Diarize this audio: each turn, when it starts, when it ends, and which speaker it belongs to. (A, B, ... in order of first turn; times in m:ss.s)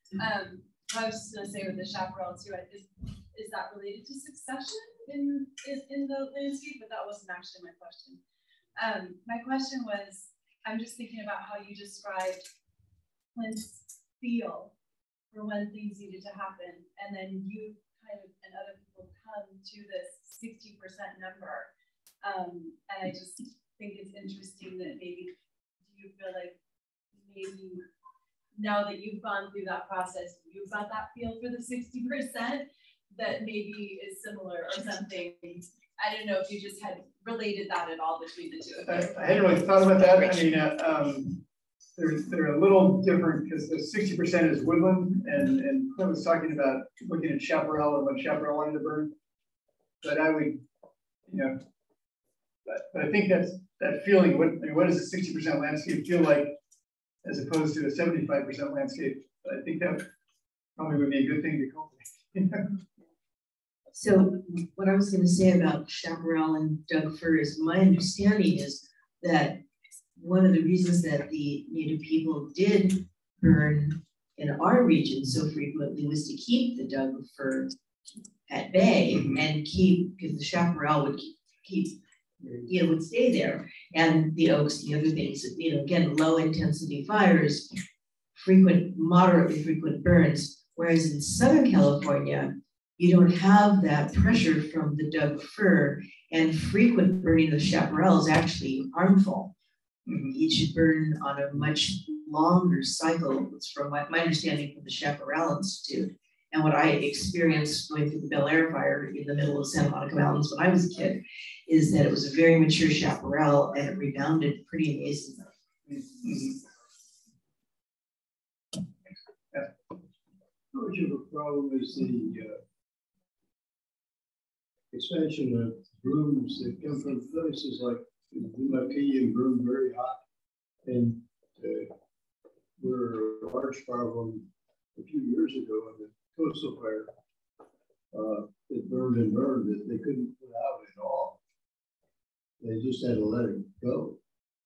0:00.2-0:08.2 A
0:08.8-0:12.4 A
0:13.3-0:14.7 A
0:15.3-0:21.7 A
0:22.2-0:25.3 A
0:25.8-0:26.6 A
0:27.1-0:27.8 A
0:28.6-0:39.3 A
0:38.9-0:41.4 B
0:42.0-0:49.1 B
0:50.0-0:50.6 B
0:51.3-0:51.6 B
0:52.7-0:56.6 B
0:57.2-1:00.1 B
1:00.8-1:02.7 B
1:03.9-1:09.6 C
1:10.2-1:17.7 C
1:18.5-1:22.0 C
1:19.1-1:19.4 B
1:22.7-1:27.7 C
1:28.3-1:39.5 C
1:40.1-1:40.4 B
1:40.3-1:55.5 C
1:55.9-1:56.6 B
2:00.7-2:02.6 D
2:04.9-2:10.2 D
2:10.8-2:11.9 D
2:12.8-2:17.1 D
2:18.1-2:21.4 D
2:22.6-2:24.2 D